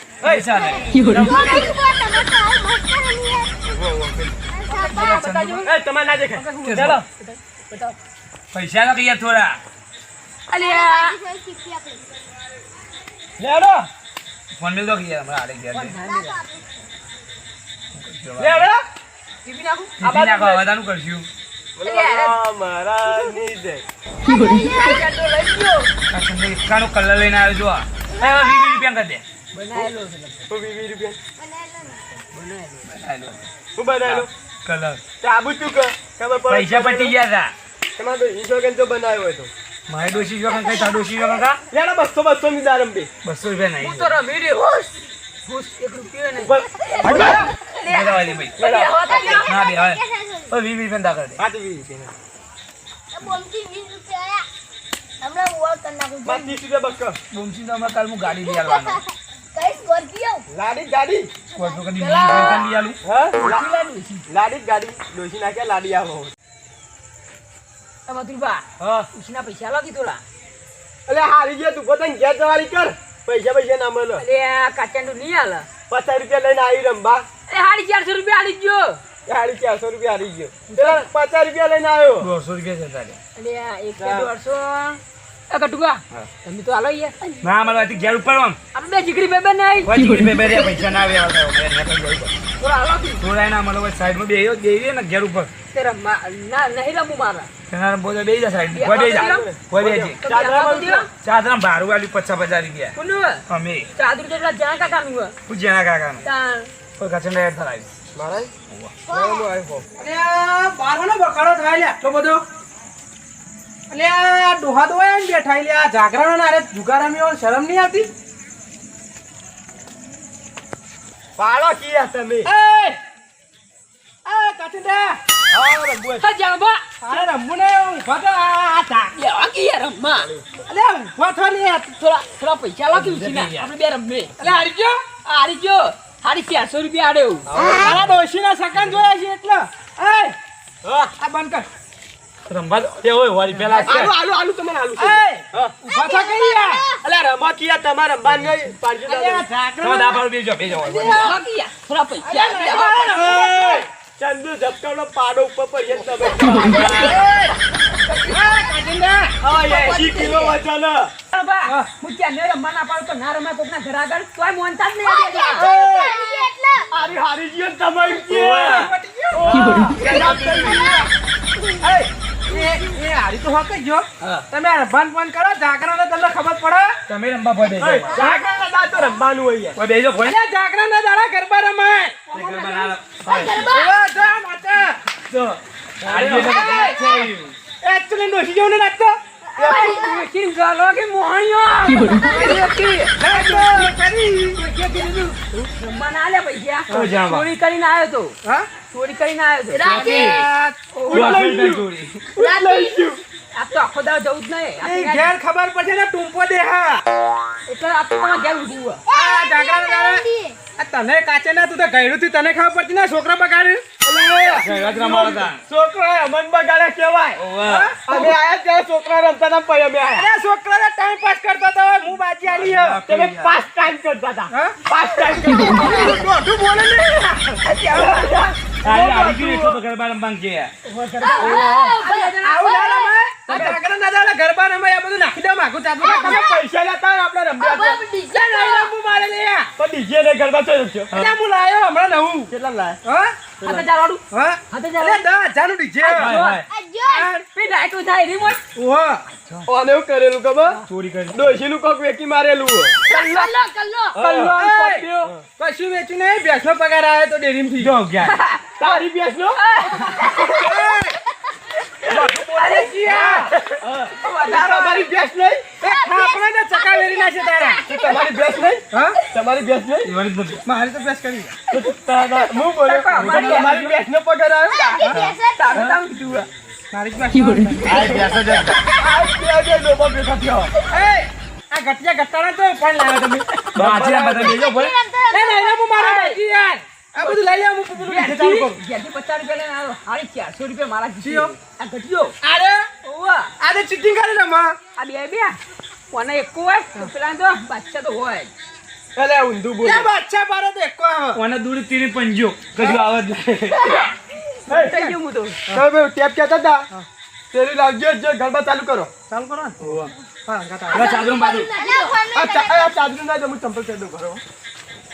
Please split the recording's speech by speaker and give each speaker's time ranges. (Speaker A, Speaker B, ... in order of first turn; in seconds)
Speaker A: 0.2-1.7, 3.7-4.3, 5.6-7.0, 13.4-13.9, 18.4-18.8, 21.8-23.8, 30.5-31.2, 33.8-34.3, 35.2-37.1, 38.0-39.5, 41.7-43.1, 46.4-47.5, 48.6-49.5, 51.4-52.1, 56.2-57.2, 60.5-61.3, 63.0-63.6, 64.3-66.3, 68.8-69.1, 71.1-74.2, 75.9-77.3, 79.3-82.3, 84.0-84.3, 98.8-101.1, 108.1-108.5, 109.1-109.8, 121.4-122.5, 125.5-126.2, 130.1-130.6, 137.5-138.2, 140.8-141.1, 143.8-145.8, 147.0-149.5, 152.8-157.2, 159.4-161.1, 165.6-171.0, 177.8-179.8, 186.1-186.7, 189.6-190.0, 193.3-193.7, 201.1-201.8, 202.3-203.2, 214.1-217.4, 218.1-220.3, 222.6-226.3, 227.8-229.6, 233.5-233.8, 236.0-238.0, 239.8-241.1, 242.5-243.0, 249.7-250.8, 251.3-252.9, 254.1-255.4, 258.8-259.6, 263.1-265.8, 267.8-270.1, 271.7-275.1, 277.9-278.2, 278.8-280.7, 283.7-284.7, 299.1-300.1, 305.7-306.9, 307.5-309.1, 312.3-314.4
Speaker B: 0.2-1.1, 4.9-5.7, 6.7-7.0, 8.5-9.6, 14.5-15.9, 17.9-18.7, 20.0-21.3, 26.1-29.2, 32.9-33.5, 34.0-35.0, 36.5-37.5, 39.9-41.6, 43.2-44.1, 47.9-48.6, 49.4-51.4, 57.3-59.0, 61.5-63.0, 82.2-83.2, 87.4-88.6, 89.8-92.3, 93.2-95.5, 97.7-100.2, 101.2-102.9, 103.5-103.9, 105.5-106.2, 107.0-107.9, 108.7-109.0, 132.9-133.7, 142.5-144.1, 149.8-151.4, 156.8-157.1, 168.3-168.9, 170.1-170.8, 177.1-178.2, 179.8-180.4, 182.3-183.6, 185.3-187.6, 196.9-197.5, 199.8-200.5, 201.1-202.3, 214.6-215.6, 217.4-217.9, 222.7-223.4, 228.8-230.7, 246.2-246.6, 250.9-251.6, 257.8-258.4, 270.0-270.6, 272.2-272.6, 273.1-273.9, 277.8-278.8, 283.7-284.9, 301.3-304.0, 309.8-310.1, 310.9-311.7
Speaker C: 0.5-3.6, 4.5-5.2, 10.5-12.0, 16.0-16.6, 31.4-32.0, 40.6-40.9, 46.9-47.3, 49.1-50.5, 53.1-54.4, 55.2-56.6, 58.4-59.0, 59.5-60.4, 61.5-62.7, 145.9-147.0, 159.6-160.6, 165.0-166.9, 170.6-171.8, 182.8-183.9, 189.5-190.2, 192.1-192.6, 199.7-200.5, 202.4-203.1, 209.1-210.6, 231.2-233.2, 236.0-236.6, 237.6-238.9, 246.7-247.3, 253.1-254.2, 260.2-260.8, 265.9-268.4, 274.7-275.9, 278.4-279.2, 284.4-286.0, 310.9-312.9
Speaker D: 4.7-5.7, 6.3-8.0, 10.5-11.2, 15.7-16.4, 19.4-20.7, 21.8-22.4, 23.1-23.4, 24.2-25.9, 29.5-30.5, 32.3-32.9, 43.8-44.9, 45.5-49.5, 63.4-64.2, 68.1-70.2, 74.2-75.7, 77.5-79.0, 80.7-81.1, 83.3-87.4, 88.7-90.0, 92.6-93.2, 95.7-97.5, 98.7-99.5, 100.2-101.1, 102.9-103.4, 104.0-105.3, 106.2-106.7, 126.2-127.2, 129.1-130.3, 132.0-134.4, 135.2-137.5, 150.8-153.5, 156.5-157.1, 158.1-158.6, 159.7-160.3, 161.3-165.7, 186.5-186.9, 189.6-193.2, 194.5-198.4, 198.9-199.9, 200.9-201.4, 203.5-205.3, 207.7-209.0, 227.6-228.3, 230.8-232.8, 233.5-233.8, 243.6-245.2, 246.0-246.6, 247.5-248.6, 253.1-253.5, 254.6-255.2, 258.2-258.7, 259.6-260.5, 262.4-263.5, 264.2-265.1, 272.8-273.7, 275.5-276.5, 285.9-286.3, 287.2-292.3, 293.0-293.5, 294.9-295.6, 296.1-298.5, 304.7-305.6
Speaker E: 110.0-112.4, 113.9-118.1, 122.4-123.0, 124.2-125.2, 127.0-129.1, 130.7-132.0, 134.4-135.0, 137.6-140.3, 141.2-141.7, 143.6-143.9, 145.0-146.9, 149.0-150.2, 152.2-153.8, 156.7-157.6, 158.3-159.4, 168.3-171.1, 171.8-177.0, 178.1-178.4, 180.2-182.8, 183.6-185.2, 186.0-187.3, 187.8-189.2, 193.2-194.6, 198.4-198.7, 200.0-201.6, 204.8-207.0, 209.1-210.2, 210.8-214.7, 217.6-218.3, 220.2-223.5, 224.5-224.8, 225.5-229.8, 231.2-236.5, 238.3-239.7, 241.1-242.5, 243.0-243.3, 244.3-246.4, 247.1-247.4, 248.8-249.2, 254.1-257.9, 260.1-261.2, 262.1-263.6, 265.8-267.9, 268.9-269.2, 270.6-271.5, 276.9-278.3, 280.9-284.4, 285.3-288.8, 291.2-291.5, 292.4-292.9, 293.6-294.8, 299.8-301.4, 304.7-305.2, 309.3-311.2